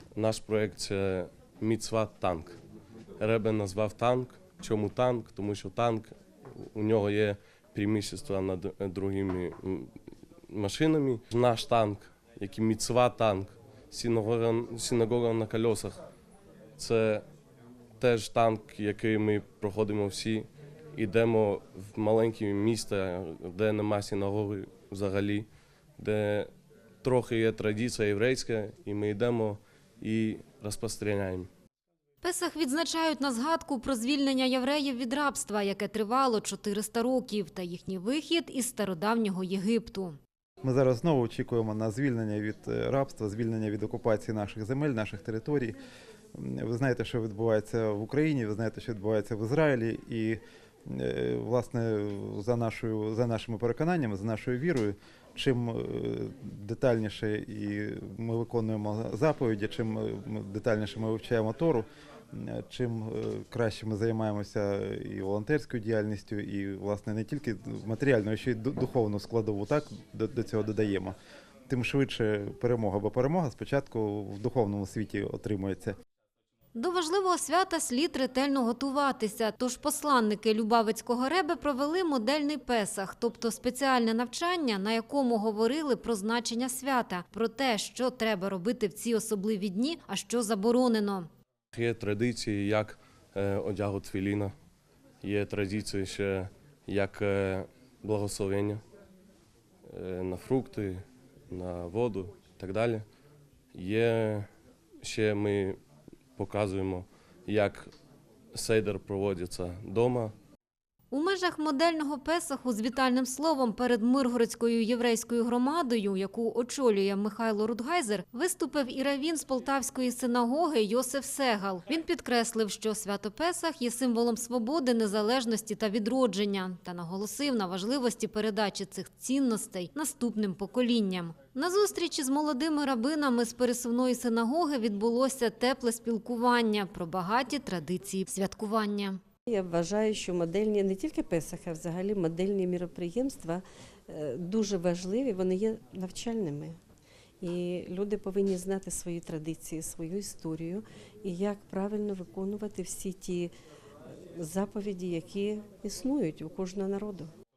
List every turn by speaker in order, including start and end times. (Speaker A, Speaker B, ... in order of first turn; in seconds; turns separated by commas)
Speaker A: 0.1-2.6, Speaker A: 3.2-9.9, Speaker A: 10.5-16.0, Speaker A: 16.8-17.2, Speaker A: 18.0-25.5, Speaker A: 26.0-26.5, Speaker A: 27.0-31.5, Speaker B: 32.2-40.2, Speaker C: 40.6-45.7, Speaker C: 46.3-71.2, Speaker C: 71.7-75.9, Speaker B: 76.7-91.3, Speaker A: 91.7-94.5, Speaker A: 95.2-98.8, Speaker A: 99.9-103.0, Speaker A: 103.7-104.5, Speaker A: 105.0-105.8, Speaker A: 106.3-107.9, Speaker A: 108.5-110.3, Speaker B: 111.1-139.2, Speaker D: 139.5-146.8, Speaker D: 147.4-153.5, Speaker D: 154.1-157.3